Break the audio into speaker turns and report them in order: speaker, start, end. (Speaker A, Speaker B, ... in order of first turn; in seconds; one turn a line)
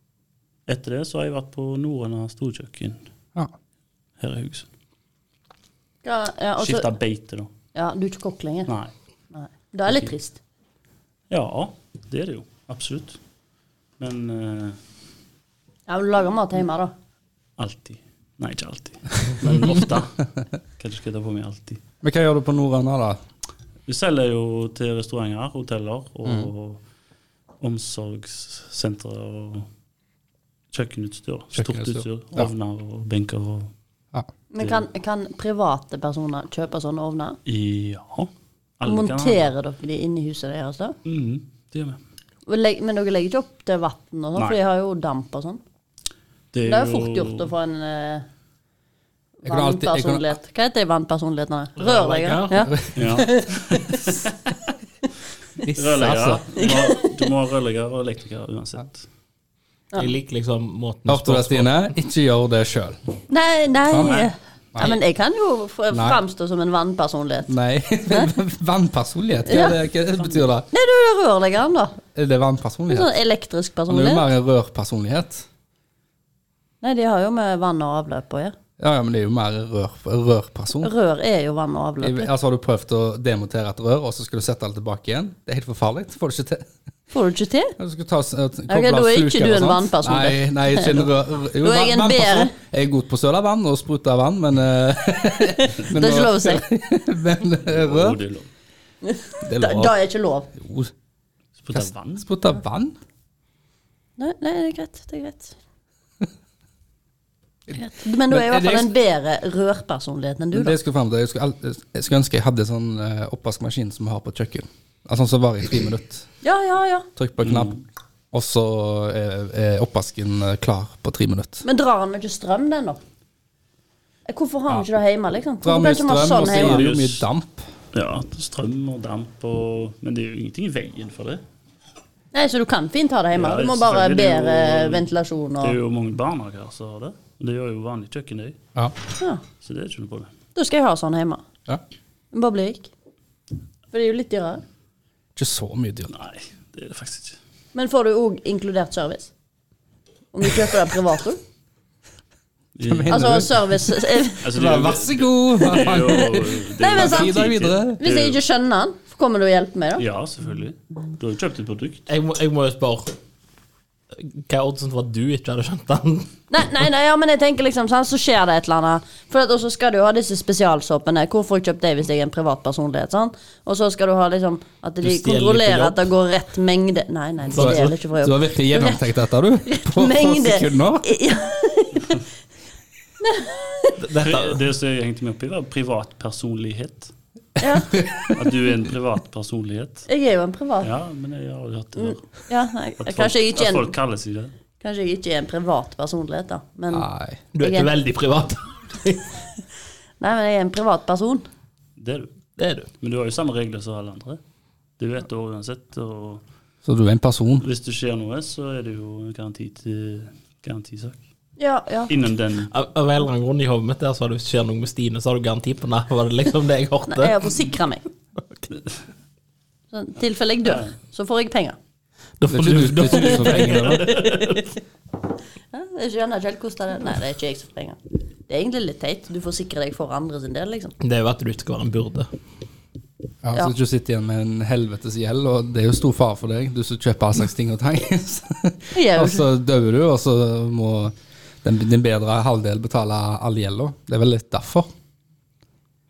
Speaker A: 0.7-3.0
Speaker A: 4.2-4.7
Speaker B: 6.0-6.9
Speaker A: 6.6-7.5
Speaker B: 7.8-8.7
Speaker B: 9.3-10.4
Speaker A: 11.3-13.2
Speaker A: 14.0-14.8
Speaker B: 15.9-16.9
Speaker A: 17.6-20.2
Speaker A: 20.8-21.8
Speaker C: 22.0-23.2
Speaker A: 23.9-26.8
Speaker A: 27.6-29.7
Speaker A: 30.7-33.7
Speaker C: 31.6-32.5
Speaker B: 34.5-37.4
Speaker A: 34.6-34.9
Speaker A: 37.5-39.5
Speaker B: 38.8-41.0
Speaker A: 41.1-42.0
Speaker B: 42.5-45.6
Speaker A: 46.5-47.5
Speaker B: 46.7-48.3
Speaker B: 49.4-54.1
Speaker C: 49.5-50.4
Speaker D: 51.8-52.7
Speaker C: 52.7-53.2
Speaker A: 53.0-54.3
Speaker C: 55.6-56.4
Speaker A: 55.8-59.1
Speaker B: 56.6-57.1
Speaker D: 60.0-62.0
Speaker C: 61.1-63.0
Speaker B: 63.3-67.5
Speaker C: 63.9-65.0
Speaker C: 65.9-66.2
Speaker C: 67.5-70.7
Speaker B: 69.5-69.8
Speaker B: 70.7-72.0
Speaker C: 72.2-73.1
Speaker B: 72.9-74.3
Speaker C: 73.9-75.5
Speaker B: 76.8-78.5
Speaker C: 78.8-80.9
Speaker B: 80.8-82.3
Speaker C: 82.0-86.7
Speaker B: 87.1-87.8
Speaker C: 87.8-98.2
Speaker B: 88.7-92.5
Speaker B: 95.5-96.6
Speaker A: 97.7-98.5
Speaker B: 99.0-100.5
Speaker C: 99.4-100.0
Speaker C: 100.6-100.9
Speaker A: 101.6-102.2
Speaker C: 101.7-103.0
Speaker B: 104.2-105.6
Speaker C: 107.7-108.9
Speaker B: 107.8-110.8
Speaker C: 110.5-116.3
Speaker B: 116.4-117.1
Speaker C: 117.2-117.7
Speaker A: 117.4-117.8
Speaker C: 118.3-121.7
Speaker B: 121.6-123.0
Speaker B: 124.3-126.9
Speaker C: 125.6-127.7
Speaker A: 126.4-127.2
Speaker A: 127.9-131.4
Speaker B: 132.3-135.7
Speaker A: 133.3-135.1
Speaker A: 135.6-138.6
Speaker A: 139.6-140.3
Speaker B: 140.6-141.4
Speaker B: 142.3-142.9
Speaker B: 143.9-144.6
Speaker C: 145.4-146.1
Speaker A: 146.1-147.4
Speaker B: 147.7-149.3
Speaker B: 150.3-151.4
Speaker A: 152.8-153.3
Speaker C: 152.9-158.0
Speaker B: 153.1-154.4
Speaker A: 154.4-158.4
Speaker B: 156.8-157.4
Speaker B: 158.0-160.0
Speaker A: 160.0-162.1
Speaker D: 162.1-163.2
Speaker D: 164.1-166.3
Speaker B: 166.5-182.3
Speaker D: 175.0-176.0
Speaker D: 177.5-177.9
Speaker C: 177.6-181.1
Speaker B: 183.2-184.0
Speaker D: 184.0-184.6
Speaker A: 184.2-187.1
Speaker B: 187.6-187.9
Speaker C: 187.9-188.8
Speaker A: 188.3-190.1
Speaker B: 190.1-190.9
Speaker A: 190.8-192.2
Speaker B: 192.0-193.9
Speaker A: 193.0-194.5
Speaker B: 194.8-197.1
Speaker C: 196.9-197.4
Speaker D: 197.5-199.2
Speaker B: 197.6-197.9
Speaker B: 200.2-201.5
Speaker A: 202.0-202.3
Speaker D: 202.6-202.9
Speaker A: 203.0-204.4
Speaker A: 205.0-206.4
Speaker C: 206.8-207.7
Speaker A: 207.6-211.2
Speaker B: 211.6-212.1
Speaker A: 212.1-212.7
Speaker D: 212.7-217.4
Speaker B: 217.1-218.1
Speaker B: 219.9-221.8
Speaker A: 220.7-220.9
Speaker D: 222.4-224.6
Speaker C: 222.5-224.2
Speaker B: 223.2-224.8
Speaker B: 225.7-230.9
Speaker D: 231.0-232.3
Speaker C: 233.4-244.9
Speaker B: 238.9-239.5